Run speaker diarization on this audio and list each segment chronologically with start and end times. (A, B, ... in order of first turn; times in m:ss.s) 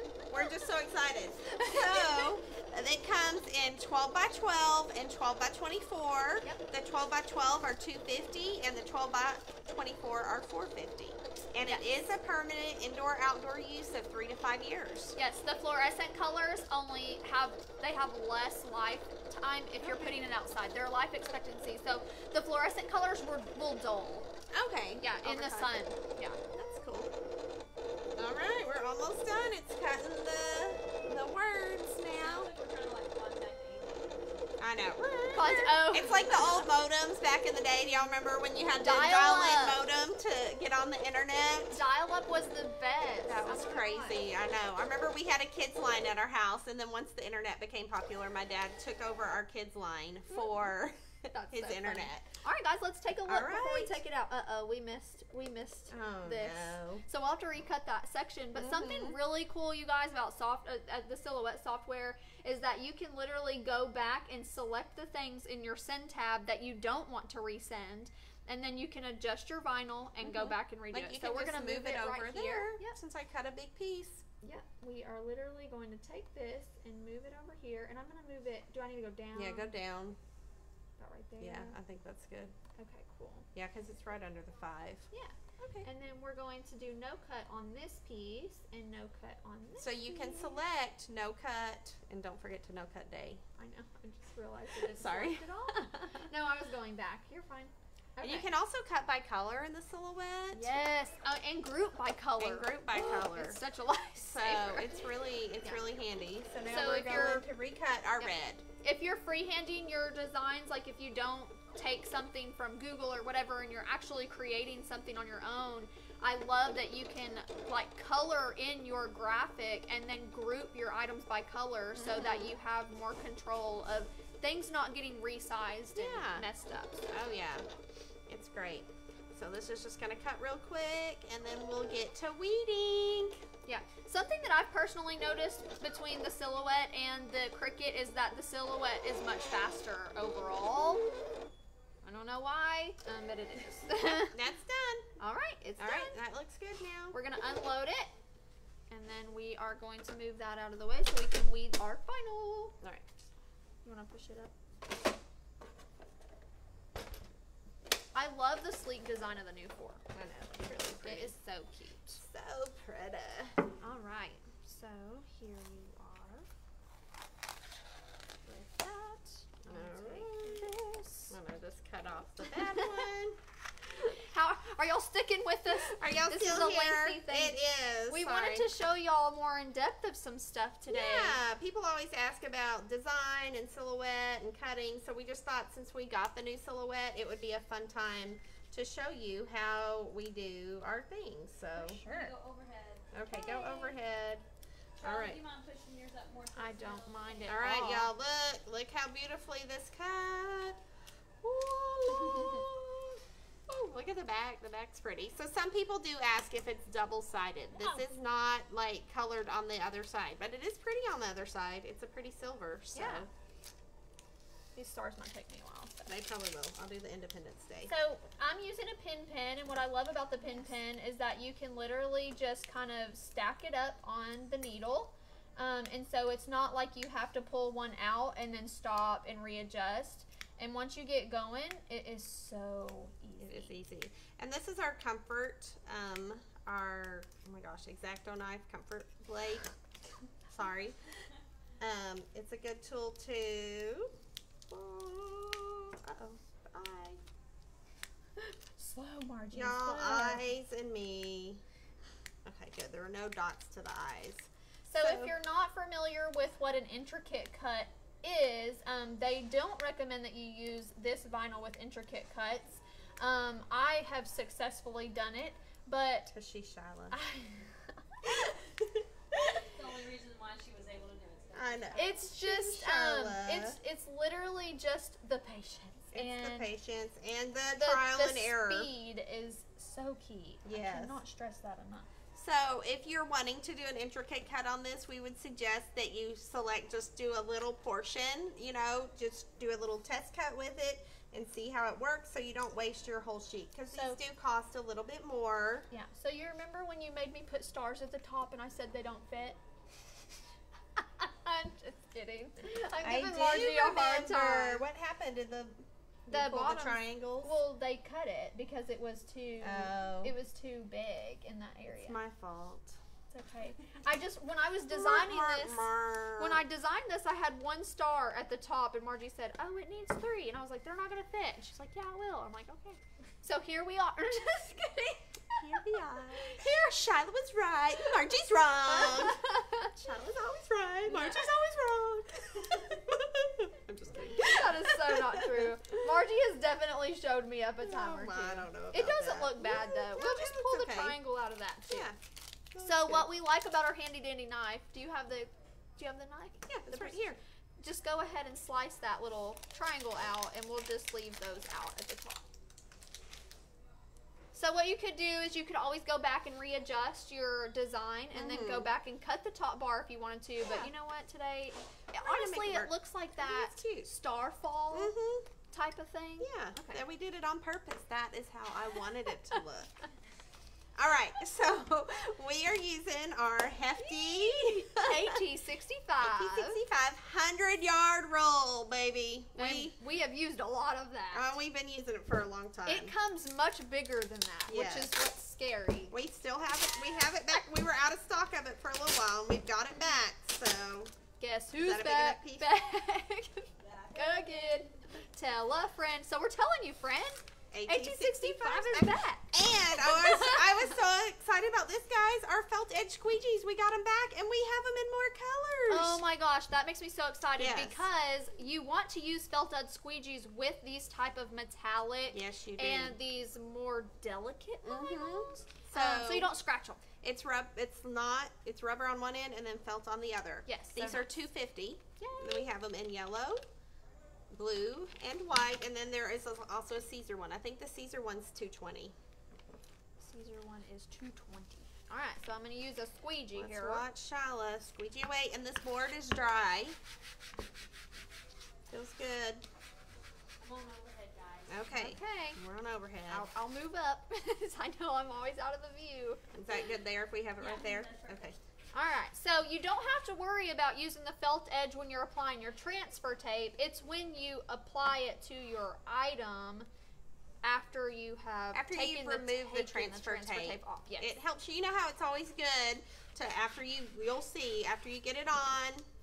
0:00.3-0:15.2 A
0:01.5-0:02.3 B
0:15.2-0:24.3 B
0:19.8-0:20.2 A
0:24.5-0:25.8 A
0:25.0-0:26.4 B
0:26.5-0:27.1 A
0:28.2-0:32.5 A
0:32.2-0:34.5 C
0:34.6-0:41.8 A
0:35.3-0:36.7 B
0:38.8-0:39.8 B
0:41.7-0:44.2 B
0:43.2-0:52.3 A
0:51.3-1:13.0 B
0:53.3-0:54.0 A
0:55.9-0:57.0 A
0:58.5-0:59.2 A
1:10.2-1:14.2 A
1:14.4-1:19.7 B
1:19.3-1:20.2 A
1:21.0-1:21.8 B
1:21.4-1:22.5 A
1:22.8-1:23.5 B
1:23.5-1:25.9 A
1:25.1-1:30.6 B
1:29.8-1:33.4 A
1:33.6-1:38.5 B
1:34.8-1:36.2 A
1:38.2-1:40.8 A
1:40.5-1:44.9 B
1:42.4-1:43.6 A
1:44.3-1:48.6 A
1:46.7-1:47.5 B
1:48.2-2:07.1 B
2:01.9-2:02.5 A
2:05.9-2:06.4 A
2:07.1-2:07.7 A
2:08.3-2:13.4 A
2:13.6-2:21.0 B
2:22.0-2:24.3 B
2:24.3-2:25.1 A
2:25.2-2:26.2 B
2:25.8-2:27.2 A
2:27.1-2:28.1 B
2:28.9-2:32.8 B
2:32.8-2:33.2 A
2:33.8-2:34.5 B
2:38.1-2:40.0 B
2:40.1-2:41.4 A
2:40.9-2:42.2 B
2:42.2-2:43.6 A
2:43.8-2:46.5 B
2:48.5-2:51.4 B
2:49.6-2:50.7 A
2:51.3-2:53.4 A
2:52.5-2:52.8 B
2:54.0-3:01.4 B
2:55.8-2:58.7 A
3:00.9-3:12.0 A
3:11.8-3:12.3 B
3:11.8-3:13.9 C
3:13.1-3:14.4 A
3:15.0-3:17.6 C
3:15.0-3:15.4 A
3:16.5-3:18.1 B
3:17.5-3:20.8 A
3:21.4-3:33.3 A
3:22.1-3:22.6 B
3:27.8-3:28.0 B
3:32.9-3:33.2 B
3:34.8-3:36.1 B
3:36.1-3:37.9 A
3:37.9-3:53.7 B
3:53.4-3:59.7 A
4:00.5-4:00.9 A
4:01.8-4:04.1 A
4:04.7-4:07.2 A
4:08.4-4:10.4 B
4:09.5-4:11.6 A
4:12.4-4:15.3 A
4:14.8-4:26.3 B
4:26.3-4:27.2 A
4:27.1-4:28.4 B
4:28.5-4:29.6 A
4:29.7-4:32.2 C
4:31.5-4:33.8 A
4:31.9-4:36.7 B
4:36.1-4:38.9 A
4:37.8-4:42.1 B
4:40.6-4:41.2 A
4:42.4-4:55.9 A
4:53.9-4:54.2 B
4:55.9-4:59.6 B
5:01.0-5:04.8 B
5:03.0-5:07.6 A
5:06.3-5:12.2 B
5:09.6-5:10.3 A
5:11.9-5:13.0 A
5:13.3-5:26.7 B
5:14.9-5:16.6 A
5:25.6-5:29.4 A
5:28.8-5:29.9 B
5:29.9-5:36.2 A
5:31.1-5:31.5 B
5:34.3-5:42.1 B
5:37.8-5:41.2 A
5:41.9-5:42.2 A
5:42.7-5:43.3 A
5:42.8-5:52.4 B
5:46.7-5:47.4 A
5:54.5-6:05.1 B
5:58.3-5:58.9 A
6:02.2-6:04.1 A
6:04.9-6:05.5 A
6:05.7-6:07.0 B
6:06.4-6:10.1 A
6:11.0-6:15.4 A
6:14.0-6:16.8 B
6:16.2-6:20.0 A
6:19.6-6:21.5 B
6:21.3-6:23.1 A
6:22.8-6:26.1 B
6:24.7-6:25.1 A
6:26.1-6:31.1 A
6:31.4-6:41.0 B
6:31.8-6:32.7 A
6:33.8-6:35.0 C
6:37.7-6:46.2 A
6:45.9-6:57.0 B
6:47.6-6:48.1 A
6:52.3-6:53.2 A
6:54.8-6:56.5 A
6:57.2-7:03.6 A
7:00.7-7:01.4 B
7:02.2-7:02.7 B
7:04.5-7:09.1 A
7:10.2-7:14.1 B
7:13.5-7:17.0 A
7:18.9-7:19.6 A
7:20.6-7:21.8 C
7:21.7-7:23.5 A
7:21.9-7:22.6 B
7:23.3-7:26.4 B
7:26.5-7:28.6 A
7:27.6-7:28.6 C
7:28.9-7:36.9 B
7:37.6-7:41.4 B
7:38.7-7:46.1 A